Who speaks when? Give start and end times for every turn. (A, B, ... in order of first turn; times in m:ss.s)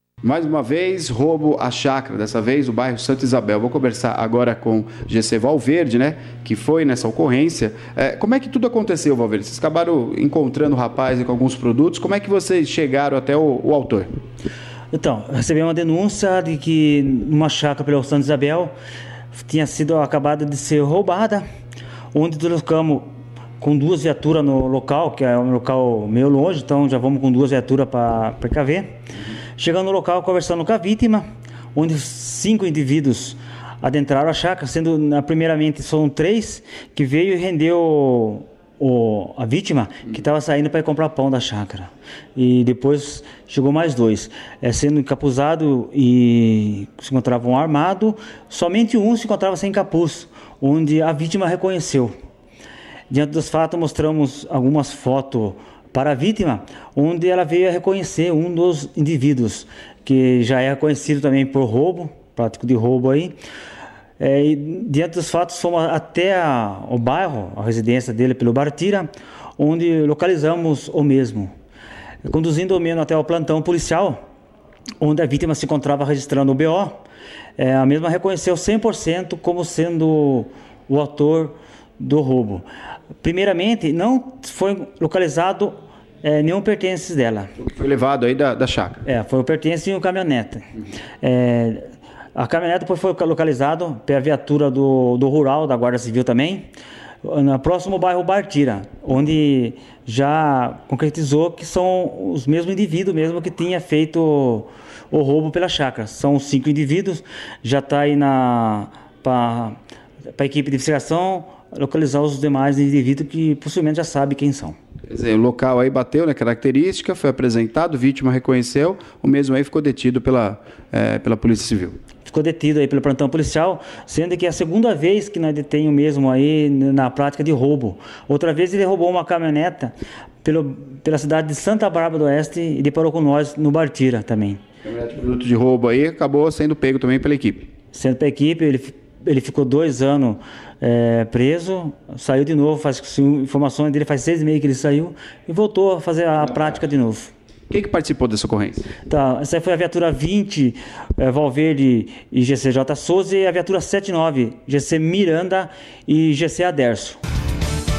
0:00.2-0:14.1 A
0:14.9-0:18.7 B
0:19.3-0:21.4 B
0:22.1-0:28.9 B
0:29.6-0:52.1 B
0:53.1-1:03.3 B
1:04.2-1:11.5 B
1:12.2-1:14.2 B
1:15.0-1:17.0 B
1:17.6-1:22.6 B
1:23.2-1:27.5 B
1:27.6-1:29.0 A
1:29.0-1:30.7 B
1:31.2-1:36.7 B
1:37.2-1:49.8 B
1:50.3-1:54.8 B
1:55.1-2:02.0 A
2:02.2-2:14.6 B
2:14.8-2:17.7 A
2:17.9-2:27.3 B
2:27.7-2:28.9 A
2:29.0-2:37.2 B